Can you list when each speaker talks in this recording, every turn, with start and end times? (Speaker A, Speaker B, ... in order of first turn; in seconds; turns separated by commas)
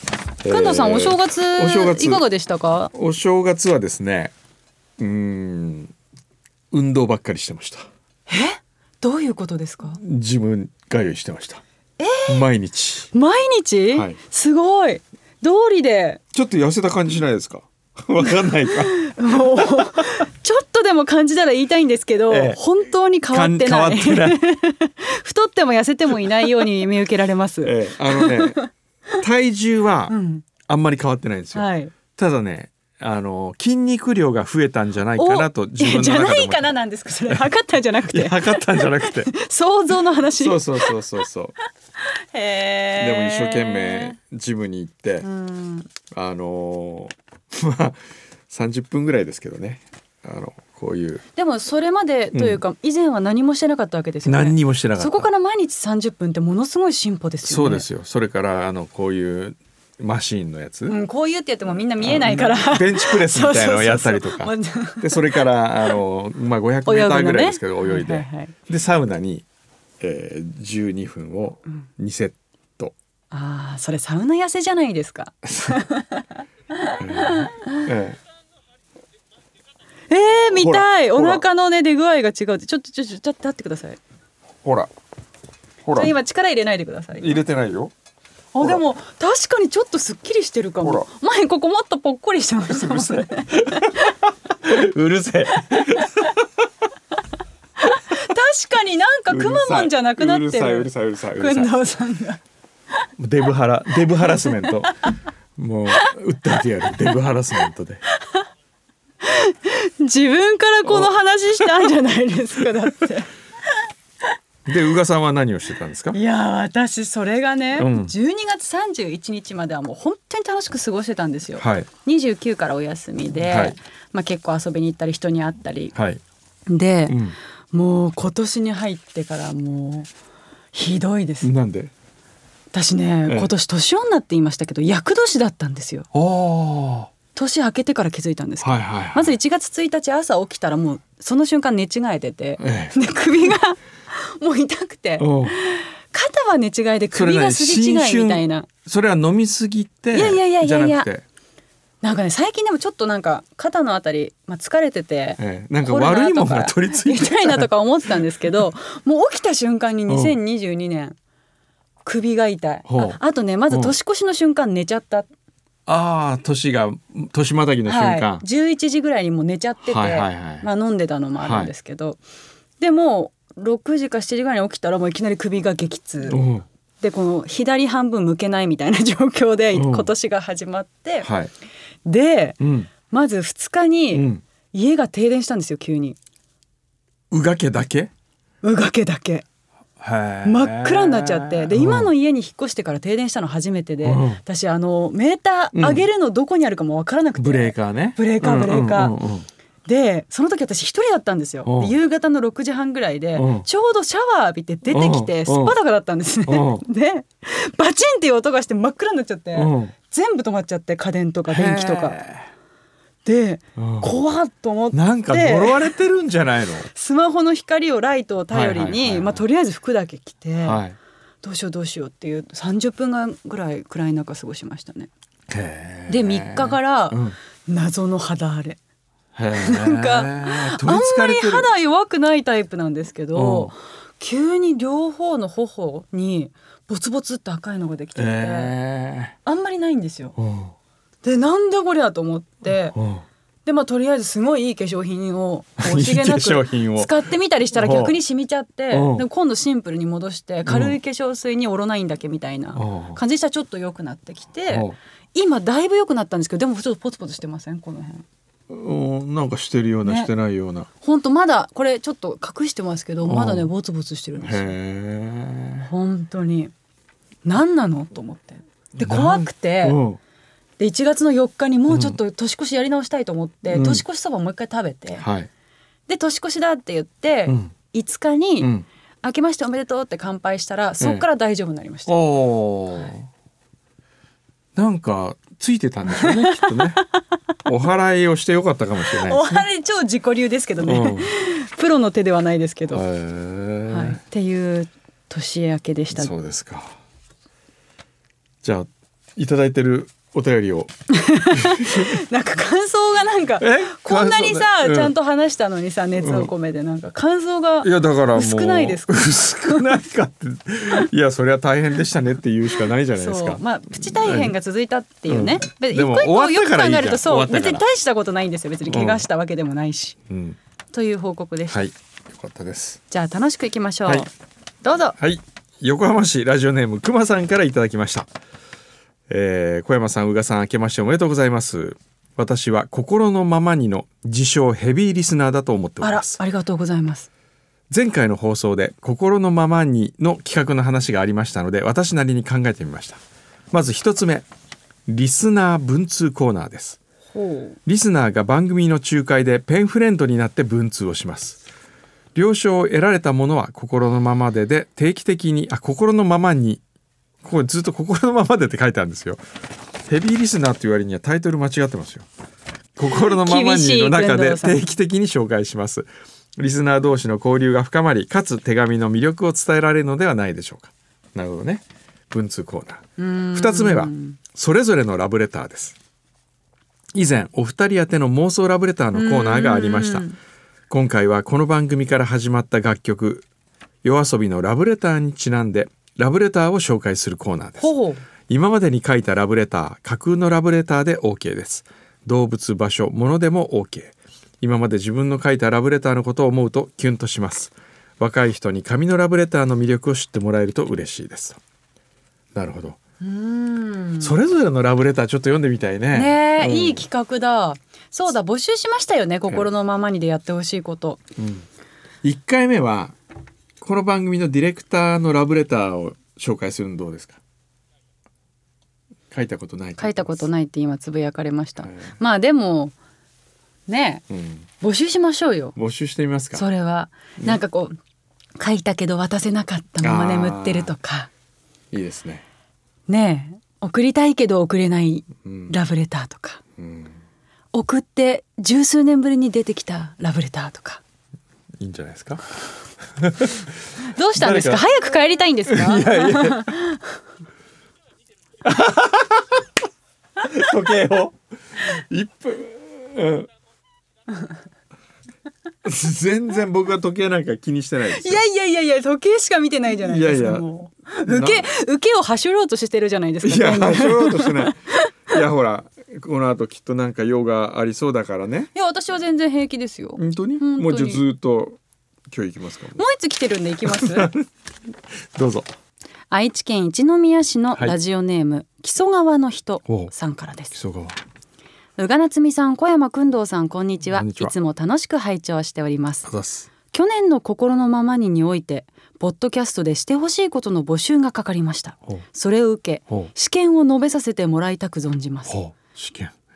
Speaker A: 0.4-2.2, Speaker B: 0.5-2.9, Speaker A: 2.9-4.3, Speaker A: 5.0-5.9, Speaker A: 6.7-7.9, Speaker B: 8.3-10.0, Speaker A: 10.0-11.6, Speaker B: 12.0-12.4, Speaker A: 12.3-13.1, Speaker B: 13.1-16.2, Speaker A: 13.9-14.2, Speaker A: 16.3-20.1, Speaker B: 18.6-28.7, Speaker A: 22.3-22.6, Speaker A: 23.3-24.4, Speaker A: 27.6-28.6, Speaker A: 29.2-30.1, Speaker B: 30.1-30.5, Speaker A: 30.7-36.7, Speaker B: 31.5-31.9, Speaker B: 35.1-41.0, Speaker A: 38.1-39.3, Speaker A: 40.2-41.5, Speaker B: 42.0-44.2, Speaker A: 43.0-45.3, Speaker B: 45.2-45.9, Speaker A: 46.1-51.2, Speaker B: 51.4-57.9, Speaker A: 52.3-52.6, Speaker A: 54.3-55.3, Speaker A: 57.5-61.0, Speaker B: 60.9-66.0, Speaker A: 62.0-69.5, Speaker B: 66.8-68.5, Speaker A: 70.0-73.0, Speaker B: 73.3-77.7, Speaker A: 77.0-78.2, Speaker B: 80.1-84.0, Speaker A: 80.6-81.4, Speaker A: 84.6-84.9, Speaker A: 85.8-86.1, Speaker B: 86.0-87.4, Speaker A: 87.2-87.9, Speaker B: 88.5-94.0, Speaker A: 92.7-96.4, Speaker B: 97.8-102.4, Speaker A: 99.3-101.7, Speaker A: 103.2-104.9, Speaker B: 104.2-104.9, Speaker A: 105.6-108.0, Speaker B: 109.2-113.8, Speaker A: 110.9-111.9, Speaker A: 114.7-116.2, Speaker B: 116.1-125.9, Speaker A: 117.8-118.1, Speaker A: 121.6-121.9, Speaker A: 123.5-123.8, Speaker A: 125.9-126.2, Speaker B: 126.7-127.2, Speaker A: 127.1-127.4, Speaker B: 127.7-130.1, Speaker B: 130.7-131.5, Speaker A: 131.4-131.9, Speaker B: 132.7-136.1, Speaker A: 136.1-137.1, Speaker B: 137.3-148.7, Speaker A: 138.6-139.3, Speaker A: 142.6-142.9, Speaker A: 145.2-145.6, Speaker A: 147.1-151.2, Speaker B: 150.1-151.1, Speaker B: 152.0-161.2, Speaker A: 155.4-157.7, Speaker A: 160.1-160.4, Speaker B: 162.1-165.3, Speaker A: 162.9-163.2, Speaker A: 163.7-163.9, Speaker A: 165.9-168.4, Speaker B: 167.8-172.2, Speaker A: 169.9-170.7, Speaker A: 171.4-171.7, Speaker B: 172.8-176.4, Speaker A: 176.3-176.7, Speaker B: 177.0-181.3, Speaker A: 179.7-180.1, Speaker A: 181.2-181.5, Speaker B: 182.1-182.6, Speaker A: 182.6-182.9, Speaker B: 183.1-186.2, Speaker A: 184.1-184.4, Speaker A: 187.3-188.1, Speaker B: 188.6-189.4, Speaker A: 190.0-192.1, Speaker B: 190.4-199.2, Speaker A: 194.0-194.4, Speaker A: 195.7-196.1, Speaker A: 197.4-199.5, Speaker B: 199.9-212.2, Speaker A: 201.7-201.9, Speaker A: 203.3-203.7, Speaker A: 204.9-205.7, Speaker A: 206.5-206.8, Speaker A: 209.6-209.9, Speaker A: 211.5-212.5, Speaker B: 213.2-215.9, Speaker A: 213.8-214.1, Speaker A: 214.9-216.9, Speaker B: 216.9-220.8, Speaker A: 218.5-219.4, Speaker A: 220.6-221.0, Speaker B: 221.4-225.1, Speaker A: 225.5-227.4, Speaker B: 226.1-228.8, Speaker A: 229.3-231.7, Speaker B: 229.5-238.7, Speaker A: 233.3-233.7, Speaker A: 238.2-239.3, Speaker B: 239.5-240.4, Speaker A: 240.4-240.7, Speaker B: 241.2-243.0, Speaker A: 242.9-243.2, Speaker B: 243.7-258.2, Speaker A: 245.8-247.2, Speaker A: 247.8-248.1, Speaker A: 248.9-249.2, Speaker A: 250.7-251.0, Speaker A: 252.8-253.2, Speaker A: 254.7-255.0, Speaker A: 258.7-260.9, Speaker B: 260.0-260.3, Speaker B: 261.0-264.7, Speaker A: 263.2-263.7, Speaker A: 264.4-265.9, Speaker B: 265.9-266.7, Speaker B: 267.4-270.0, Speaker A: 269.0-270.2, Speaker B: 270.8-275.2, Speaker A: 271.9-272.2, Speaker A: 273.7-274.0, Speaker A: 275.2-275.5, Speaker B: 276.1-278.7, Speaker A: 277.5-277.7, Speaker A: 278.6-278.9, Speaker B: 279.2-282.3, Speaker A: 282.1-283.3, Speaker A: 284.8-287.0, Speaker B: 286.2-286.8, Speaker A: 287.6-289.7, Speaker B: 289.1-293.0, Speaker A: 290.8-291.3, Speaker A: 292.9-294.2, Speaker B: 293.9-296.3, Speaker A: 296.1-297.0, Speaker A: 298.6-300.9, Speaker B: 301.1-310.0, Speaker A: 301.5-302.1, Speaker A: 303.6-305.1, Speaker A: 306.2-306.5, Speaker A: 307.8-314.5, Speaker B: 313.1-320.2, Speaker A: 315.3-317.9, Speaker A: 318.9-319.2, Speaker A: 320.3-320.6, Speaker B: 320.9-321.8, Speaker A: 321.7-323.0, Speaker B: 323.1-324.3, Speaker B: 324.8-325.2, Speaker A: 325.2-328.3, Speaker A: 329.3-336.4, Speaker B: 336.0-337.3, Speaker A: 337.9-343.2, Speaker A: 343.7-344.5, Speaker A: 345.1-347.0, Speaker B: 347.3-347.8, Speaker A: 347.9-351.6, Speaker A: 352.4-356.8, Speaker A: 357.4-359.4, Speaker A: 360.1-362.3, Speaker A: 363.0-376.0, Speaker B: 363.1-364.8, Speaker B: 373.2-374.4, Speaker A: 377.1-380.3, Speaker B: 379.1-380.4, Speaker A: 380.9-383.5, Speaker A: 384.0-387.9, Speaker B: 387.8-388.2, Speaker A: 388.5-401.6, Speaker A: 402.6-403.0, Speaker B: 403.2-404.4, Speaker A: 404.2-407.1, Speaker B: 406.1-411.2, Speaker A: 411.4-411.6, Speaker A: 412.2-413.1, Speaker A: 413.8-417.4, Speaker A: 419.3-420.5, Speaker B: 420.0-422.9, Speaker A: 421.8-422.1, Speaker B: 423.9-424.2, Speaker A: 424.3-424.7, Speaker B: 424.8-425.8, Speaker A: 425.8-426.6, Speaker B: 426.6-427.9, Speaker B: 428.6-431.3, Speaker A: 430.0-430.9, Speaker A: 431.9-432.4, Speaker B: 433.1-436.6, Speaker A: 435.4-435.7, Speaker A: 436.8-437.2, Speaker B: 437.7-441.0, Speaker A: 441.8-442.4, Speaker A: 443.1-443.7, Speaker B: 444.2-447.1, Speaker A: 444.3-444.9, Speaker A: 445.7-446.7, Speaker A: 448.6-449.6, Speaker A: 450.4-453.5, Speaker A: 455.8-458.4, Speaker B: 458.1-465.1, Speaker A: 460.0-460.7, Speaker A: 461.2-461.7, Speaker A: 463.4-468.7, Speaker B: 468.7-471.2, Speaker A: 470.2-471.8, Speaker A: 472.3-473.0, Speaker B: 472.9-474.3, Speaker A: 473.9-474.4, Speaker A: 475.4-475.7, Speaker B: 476.3-480.8, Speaker A: 479.9-480.1, Speaker A: 480.7-481.2, Speaker B: 482.0-486.3, Speaker A: 484.1-484.5, Speaker A: 486.2-486.7, Speaker B: 486.9-495.6, Speaker A: 495.5-496.4